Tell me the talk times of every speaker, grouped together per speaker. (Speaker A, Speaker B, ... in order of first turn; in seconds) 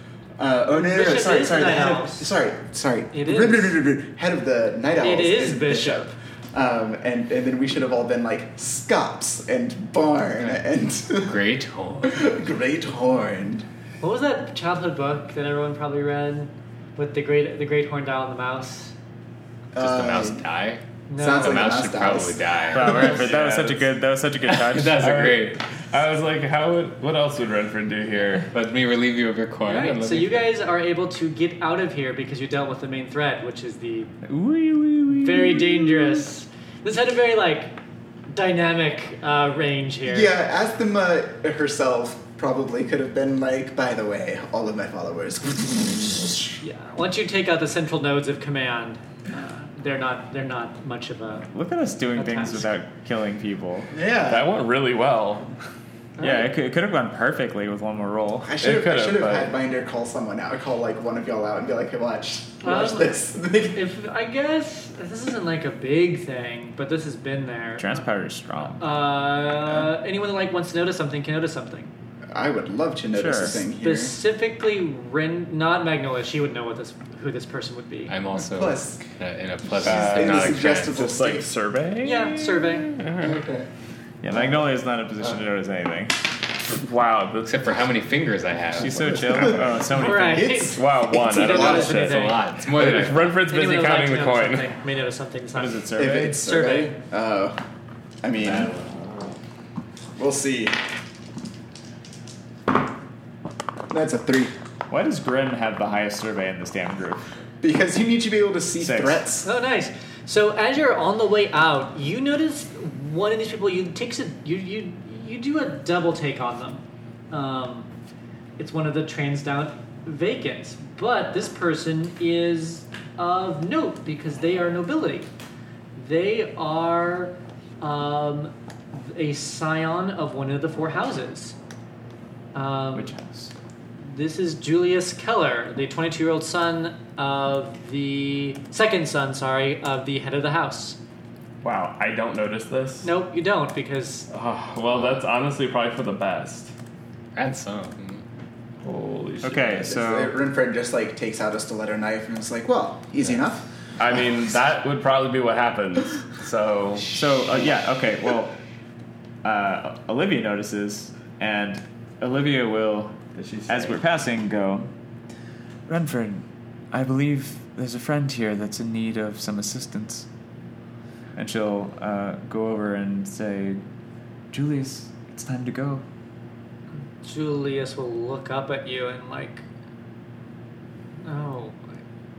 Speaker A: 0.4-11.4, 12.0-13.7, 19.7-20.4, 21.2-23.3, 40.0-46.5, 53.9-54.5, 58.4-63.8, 72.3-74.2, 78.5-79.0, 79.8-81.5, 83.2-83.7, 89.2-89.6, 90.3-92.0, 96.0-97.6, 98.2-98.7, 100.2-100.8, 103.9-104.5, 107.6-109.5, 149.8-153.7
Speaker B: 0.7-2.4, 3.1-3.8, 5.0-6.1, 14.0-18.9, 21.1-21.8, 29.7-34.1, 35.2-37.8, 38.3-40.3, 46.6-51.5, 52.2-52.8, 56.2-56.5, 62.6-63.2, 63.7-68.1, 68.8-71.9, 73.8-78.1, 82.0-82.9, 89.9-92.4, 93.4-97.0, 109.4-117.9, 118.6-125.3, 126.0-131.6, 132.5-133.1, 134.0-141.0, 143.0-144.3, 177.0-179.6, 181.2-182.0
Speaker C: 11.1-12.3, 19.8-23.2, 24.5-25.6, 28.5-30.6, 78.1-81.1, 87.4-89.1, 91.5-93.4, 147.3-148.2
Speaker D: 22.7-25.0, 34.3-36.2, 51.5-53.9, 56.2-58.6, 67.8-68.8, 73.1-73.6, 84.2-86.2, 88.8-90.7, 95.5-96.4, 98.5-98.9, 104.9-107.3, 108.8-109.2, 132.9-133.5, 149.4-150.3, 157.1-158.6, 159.4-164.9, 165.9-170.3, 171.3-173.8, 174.5-176.0
Speaker E: 23.0-23.9, 24.9-28.5, 54.2-55.5, 58.6-59.5, 79.8-83.4, 86.7-87.7, 88.8-89.8, 90.7-94.7, 141.6-143.1, 144.3-146.7, 148.8-149.9, 154.0-157.2, 163.3-164.0